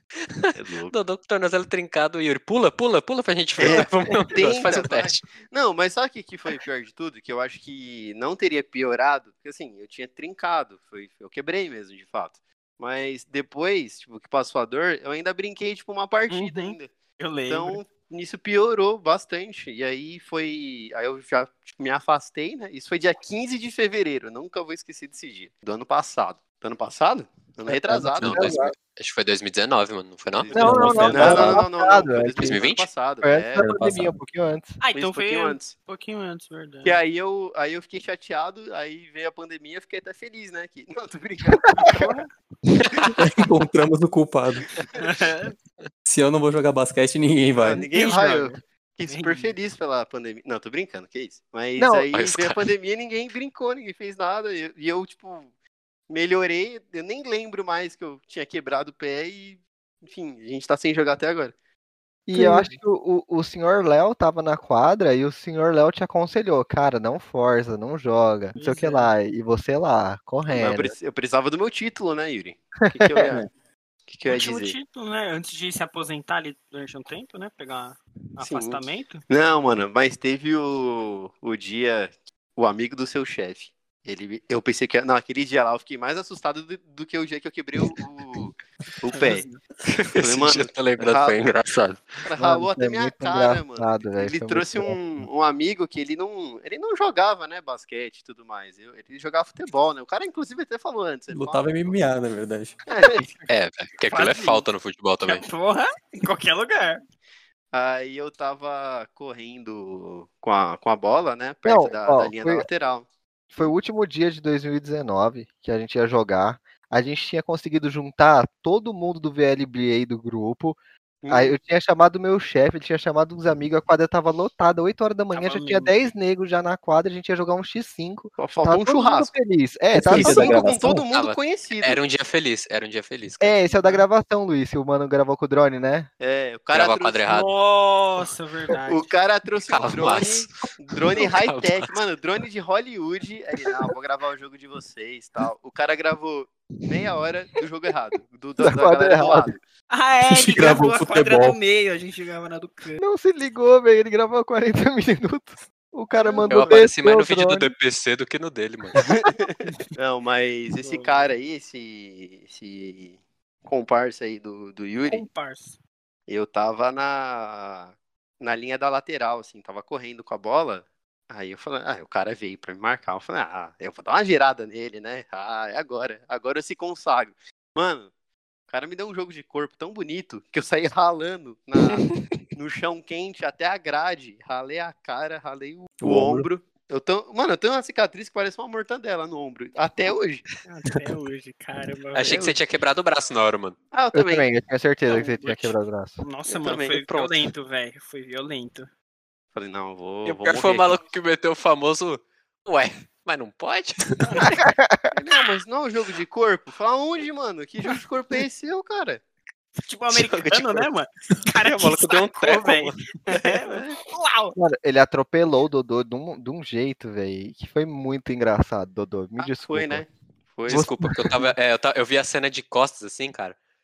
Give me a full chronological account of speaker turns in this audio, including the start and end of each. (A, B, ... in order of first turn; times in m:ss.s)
0:00.3-0:05.2 A
0:00.5-0:00.9 B
0:03.6-0:16.9 B
0:16.3-0:17.8 C
0:17.5-0:28.5 B
0:27.7-0:28.7 D
0:28.2-0:31.4 A
0:30.4-0:33.7 B
0:30.5-0:32.6 D
0:30.5-0:31.6 E
0:32.4-0:32.9 A
0:33.2-0:34.8 D
0:33.6-0:34.1 E
0:34.8-0:37.0 C
0:34.9-0:35.7 B
0:36.8-0:42.1 B
0:41.8-0:42.3 C
0:43.1-0:44.7 E
0:44.7-0:45.1 B
0:45.0-0:45.5 C
0:46.0-0:47.9 E
0:47.6-0:55.5 B
0:47.9-0:48.5 C
0:48.1-0:48.4 D
0:49.1-0:49.5 C
0:51.8-0:52.1 D
0:52.1-0:52.6 A
0:56.1-1:01.5 B
1:02.3-1:10.9 D
1:02.3-1:02.7 C
1:08.6-1:09.1 C
1:10.5-1:13.4 B
1:12.9-1:13.4 D
1:14.1-1:14.8 B
1:14.2-1:19.2 C
1:18.4-1:29.4 B
1:29.1-1:29.6 C
1:30.1-1:32.2 A
1:30.2-1:31.4 B
1:32.2-1:42.0 B
1:32.4-1:35.0 D
1:41.3-1:42.8 E
1:42.9-1:43.4 B
1:43.5-1:45.4 A
1:44.1-1:44.6 C
1:45.2-1:47.0 C
1:47.7-1:53.1 B
1:51.6-1:52.6 D
1:53.5-2:00.8 D
2:01.2-2:01.6 B
2:01.3-2:11.0 D
2:05.3-2:06.1 C
2:08.4-2:09.3 B
2:09.9-2:11.0 E
2:10.1-2:12.0 B
2:11.1-2:13.6 A
2:13.4-2:16.1 D
2:16.2-2:17.3 B
2:16.7-2:17.5 A
2:17.3-2:19.1 C
2:18.8-2:29.6 B
2:19.7-2:20.6 A
2:21.1-2:21.9 A
2:28.6-2:29.5 D
2:29.9-2:33.0 C
2:30.3-2:31.6 E
2:33.0-2:37.7 D
2:36.2-2:36.5 C
2:36.5-2:39.0 A
2:39.0-2:45.2 B
2:40.8-2:41.3 C
2:45.1-2:45.8 C
2:46.3-2:58.1 B
2:58.7-3:10.4 B
3:06.0-3:06.5 E
3:10.6-3:12.5 C
3:12.1-3:13.8 A
3:12.2-3:12.6 B
3:13.9-3:14.5 B
3:14.1-3:16.2 D
3:15.1-3:18.9 C
3:16.5-3:17.3 B
3:19.5-3:21.0 B
3:20.2-3:24.5 A
3:24.2-3:24.5 C
3:24.5-3:25.1 D
3:25.1-3:29.2 B
3:29.8-3:34.5 C
3:30.1-3:30.8 A
3:31.6-3:33.0 A
3:34.6-3:40.0 D
3:39.4-3:40.9 B
3:40.7-3:43.6 A